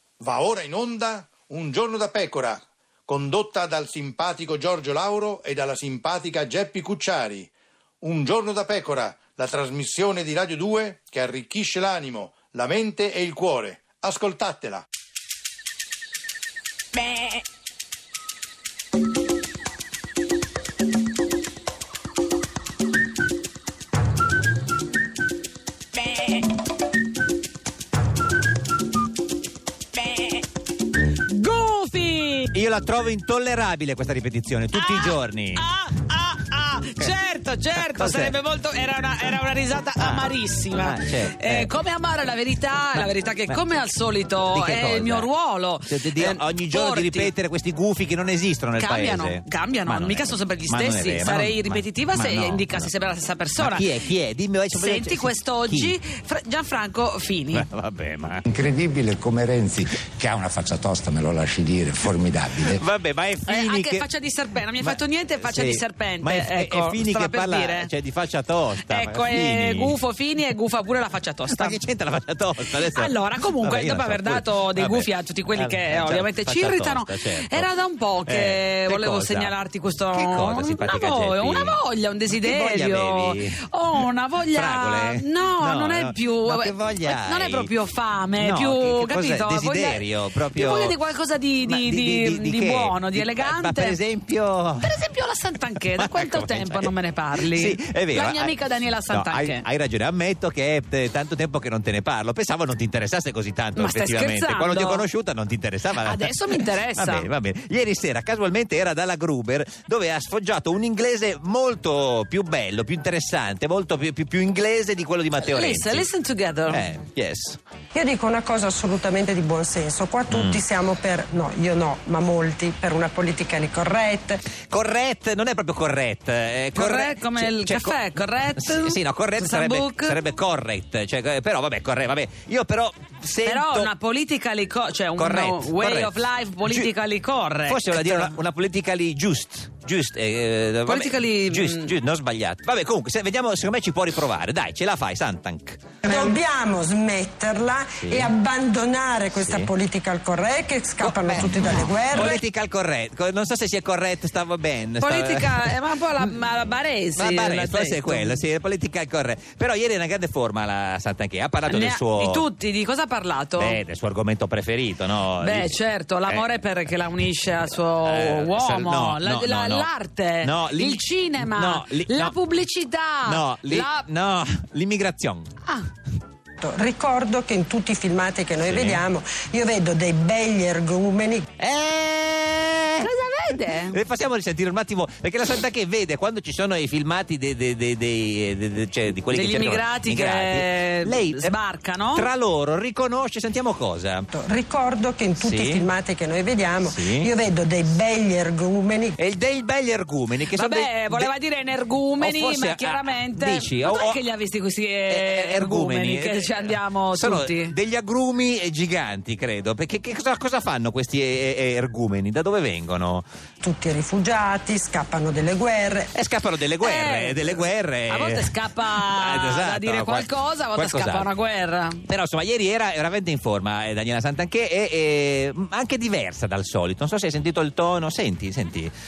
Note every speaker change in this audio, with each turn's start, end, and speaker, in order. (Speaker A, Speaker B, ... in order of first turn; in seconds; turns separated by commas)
Speaker A: 0.2-7.5, Speaker A: 8.0-14.8, Speaker B: 31.2-32.5, Speaker C: 32.5-35.6, Speaker B: 34.8-47.3, Speaker C: 37.9-38.3, Speaker C: 40.0-41.7, Speaker C: 43.0-43.6, Speaker C: 44.4-45.3, Speaker C: 45.9-52.9, Speaker B: 48.8-54.0, Speaker C: 53.6-56.0, Speaker B: 54.7-57.7, Speaker C: 57.5-58.5, Speaker D: 58.5-62.8, Speaker C: 62.6-64.0, Speaker B: 63.5-67.9, Speaker C: 64.8-70.0, Speaker B: 68.8-71.8, Speaker C: 71.5-77.7, Speaker B: 72.8-94.0, Speaker C: 78.3-79.5, Speaker C: 80.1-81.8, Speaker C: 82.3-87.7, Speaker C: 88.4-91.0, Speaker C: 91.7-94.9, Speaker B: 94.8-99.7, Speaker C: 96.0-116.1, Speaker B: 103.8-105.0, Speaker B: 106.0-107.3, Speaker B: 115.4-116.8, Speaker C: 116.7-117.6, Speaker E: 117.9-124.4, Speaker C: 120.3-120.6, Speaker C: 124.7-133.9, Speaker B: 126.8-130.2, Speaker B: 133.4-138.3, Speaker C: 135.2-136.2, Speaker C: 136.7-136.9, Speaker C: 137.7-145.8, Speaker B: 140.9-141.9, Speaker E: 146.1-152.4, Speaker C: 148.0-148.3, Speaker C: 149.3-149.7, Speaker C: 151.0-155.8, Speaker B: 155.0-158.4, Speaker C: 157.2-162.4, Speaker B: 161.7-163.8, Speaker C: 163.6-165.8, Speaker B: 165.4-174.0, Speaker C: 168.0-169.9, Speaker C: 170.4-172.4, Speaker C: 173.3-175.5, Speaker E: 176.6-181.5, Speaker C: 178.6-179.0, Speaker C: 181.6-183.1, Speaker B: 183.0-184.0, Speaker C: 183.9-191.6, Speaker B: 189.3-192.3, Speaker C: 192.2-194.3, Speaker E: 194.3-199.2, Speaker C: 195.4-195.9, Speaker C: 196.8-197.3, Speaker C: 199.2-201.3, Speaker B: 200.5-207.7, Speaker C: 202.2-204.2, Speaker C: 205.1-213.2, Speaker E: 213.6-216.1, Speaker C: 216.1-221.3, Speaker B: 216.8-222.0, Speaker C: 222.1-228.9